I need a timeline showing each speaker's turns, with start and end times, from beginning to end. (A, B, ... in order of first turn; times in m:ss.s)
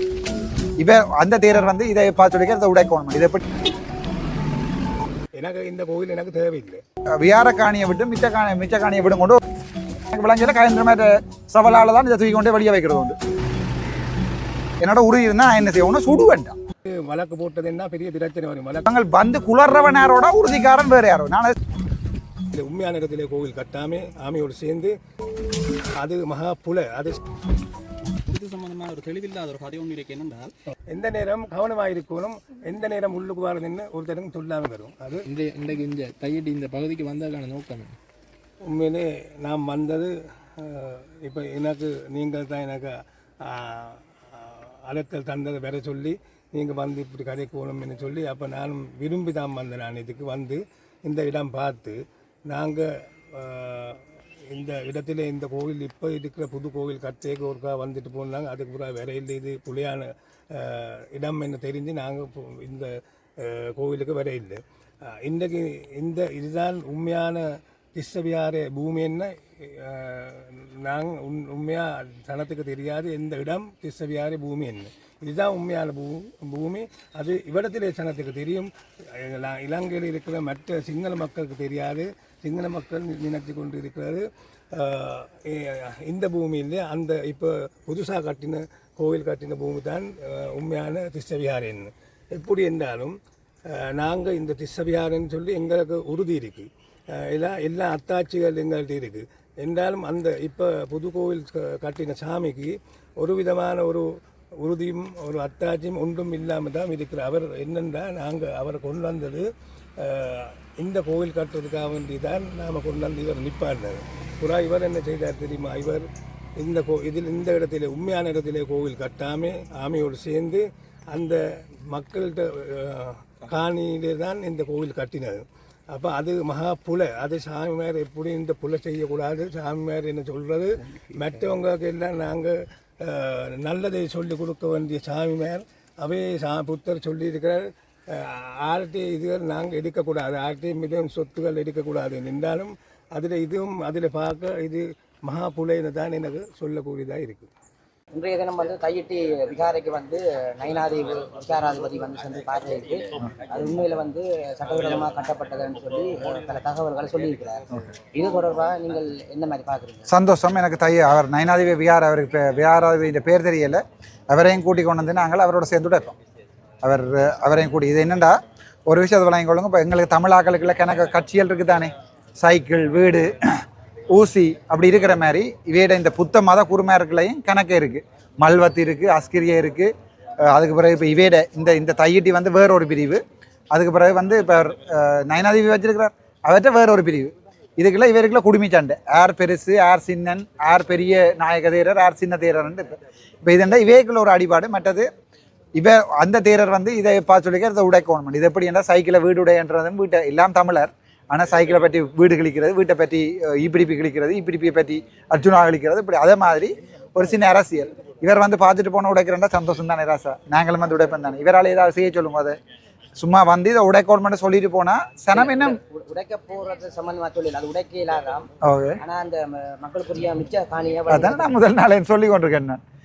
0:00.8-0:03.4 A
0:05.4-0:06.8 B
0:07.2-0:09.4 A
0:10.1-0:13.2 A
0:14.8-0:16.6 A
0:16.9-0:18.9 B
0:18.9-0:21.5 A
0:22.5-0:25.0 B
0:26.0-0:27.2 B
0:28.3-0:30.5 C
0:30.9-0:35.2 B
0:35.3-0:37.9 D
0:38.6-1:33.2 B
1:33.7-1:44.1 B
1:44.6-1:49.5 B
1:50.0-1:56.0 B
1:56.6-2:27.5 B
2:11.1-2:11.5 D
2:28.1-2:40.1 E
2:40.1-2:46.1 A
2:46.8-2:48.3 A
2:48.9-2:53.3 A
2:54.1-2:59.9 A
3:00.5-3:03.2 A
3:03.7-3:15.1 A
3:15.8-3:32.6 A
3:33.2-3:35.8 A
3:35.3-3:41.7 E
3:38.7-3:39.0 A
3:41.1-3:42.8 A